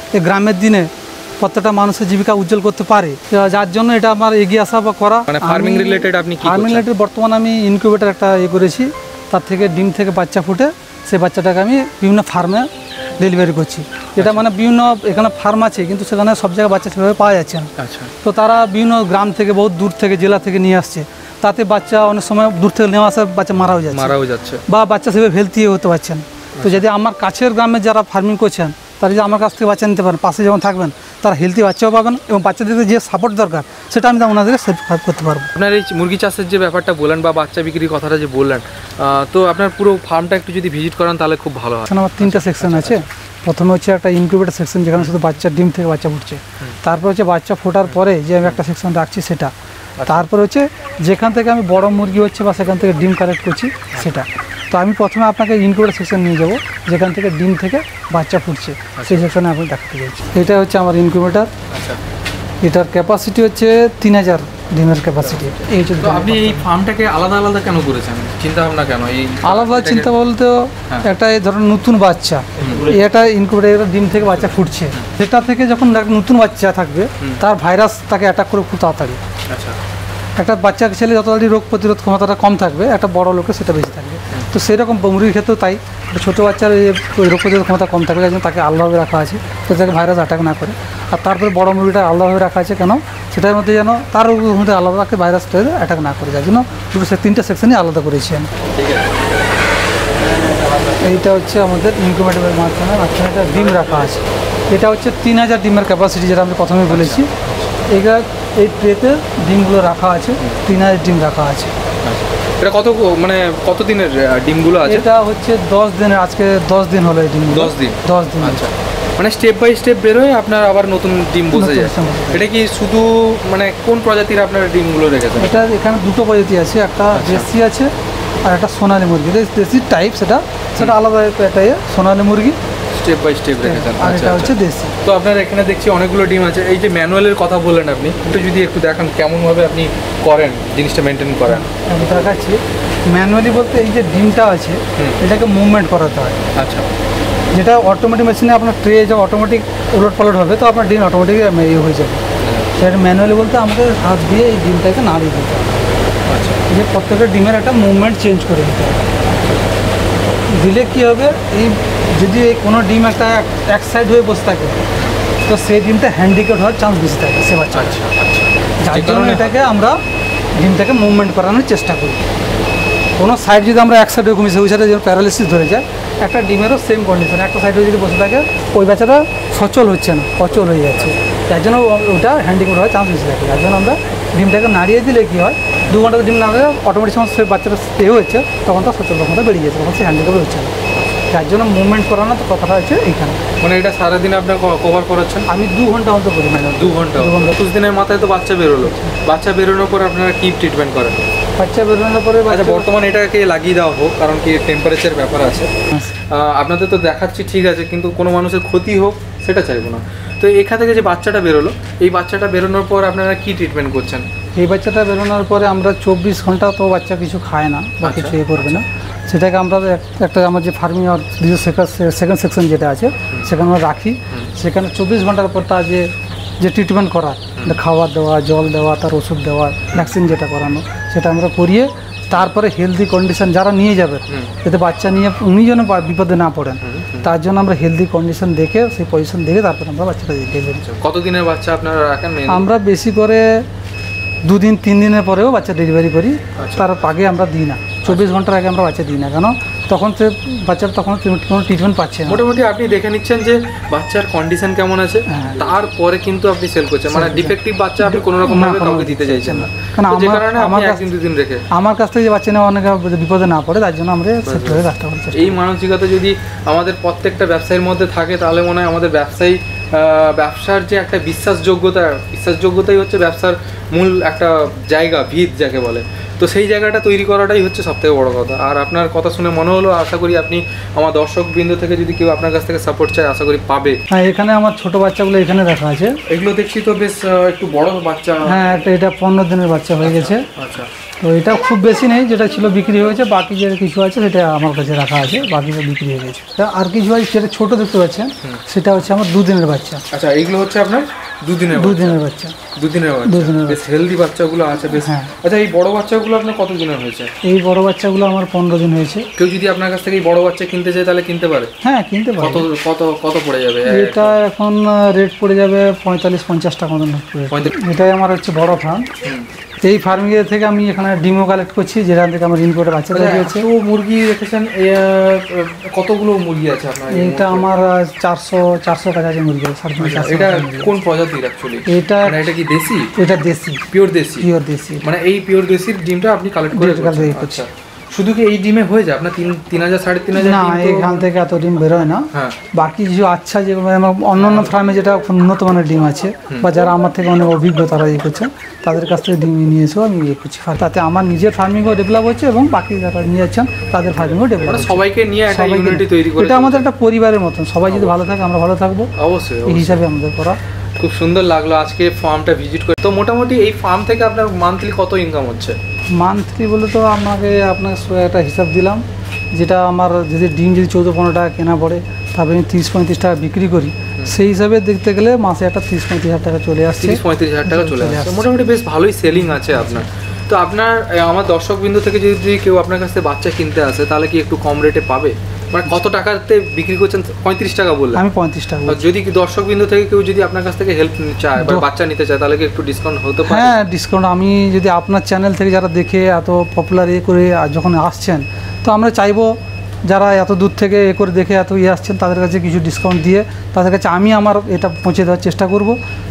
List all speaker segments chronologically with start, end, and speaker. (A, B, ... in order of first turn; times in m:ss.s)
0:00.1-0:17.7 A
0:05.3-0:06.8 B
0:14.2-0:14.4 B
0:17.8-0:18.1 B
0:18.2-0:24.2 A
0:23.9-0:24.6 B
0:24.7-0:35.5 A
0:26.6-0:26.8 B
0:35.5-0:43.1 B
0:41.9-0:49.5 A
0:50.0-0:50.3 B
0:50.1-1:01.5 A
0:59.0-0:59.3 B
1:01.7-1:02.0 B
1:02.6-1:06.6 A
1:06.0-1:10.1 B
1:09.4-1:19.2 A
1:12.6-1:13.0 B
1:14.4-1:15.0 B
1:19.5-1:19.8 B
1:20.4-1:38.5 A
1:38.7-1:39.2 B
1:40.3-1:41.1 B
1:41.0-1:47.3 A
1:43.5-1:44.2 B
1:46.9-1:48.0 B
1:47.9-1:51.7 A
1:52.0-1:55.1 B
1:54.8-1:58.7 A
1:57.5-2:05.6 B
2:01.5-2:02.4 A
2:05.4-2:07.9 A
2:07.1-2:07.5 B
2:08.4-2:12.6 A
2:12.9-2:21.7 B
2:13.6-2:15.0 A
2:21.5-2:26.4 A
2:26.6-2:26.9 B
2:27.5-2:32.2 A
2:32.4-2:32.8 B
2:32.8-2:35.9 A
2:36.3-2:36.6 B
2:36.7-2:39.1 A
2:40.5-2:44.8 A
2:45.4-2:48.1 A
2:47.7-2:49.7 B
2:48.8-2:50.0 A
2:50.6-2:52.2 A
2:53.2-3:10.8 A
3:10.9-3:11.2 B
3:11.3-3:13.4 A
3:13.6-3:15.5 B
3:15.5-3:17.6 A
3:16.6-3:21.3 B
3:18.8-3:19.2 A
3:21.6-3:22.9 A
3:22.5-3:25.7 B
3:26.3-3:34.3 B
3:34.6-3:46.1 A
3:38.0-3:38.8 B
3:46.6-4:00.9 A
3:49.9-3:50.2 B
3:56.8-3:57.3 B
4:00.9-4:02.7 B
4:02.5-4:03.7 A
4:04.4-4:12.4 A
4:06.6-4:06.9 B
4:08.0-4:08.4 B
4:12.3-4:21.6 B
4:15.3-4:15.7 A
4:17.1-4:21.1 A
4:21.7-4:25.6 A
4:24.4-4:44.0 B
4:44.1-4:46.2 A
4:46.3-4:48.6 B
4:48.4-4:50.5 A
4:50.0-4:50.9 B
4:51.2-5:00.0 A
5:00.1-5:02.2 B
5:01.7-5:02.6 A
5:02.8-5:07.3 B
5:03.2-5:03.8 A
5:05.0-5:05.3 A
5:07.4-5:09.3 A
5:09.4-5:11.7 B
5:11.8-5:12.7 A
5:12.4-5:14.4 B
5:13.9-5:19.1 A
5:17.5-5:17.8 B
5:19.2-5:19.5 B
5:19.8-5:23.7 A
5:23.1-5:27.7 B
5:27.1-5:30.9 A
5:30.0-5:33.1 B
5:31.9-5:32.4 A
5:33.2-5:33.9 A
5:33.9-5:34.5 B
5:34.4-5:35.1 A
5:35.0-5:41.3 B
5:36.7-5:37.6 A
5:40.4-5:59.1 A
5:42.3-5:42.6 B
5:44.4-5:44.7 B
5:54.6-5:56.8 B
5:57.9-5:58.4 B
5:59.2-6:00.0 B
5:59.6-6:00.6 A
6:01.0-6:05.8 B
6:06.2-6:09.0 A
6:09.5-6:18.5 A
6:17.0-6:28.2 B
6:19.3-6:20.0 A
6:28.1-6:29.0 A
6:28.8-6:33.8 B
6:31.6-6:31.9 A
6:33.4-6:46.0 A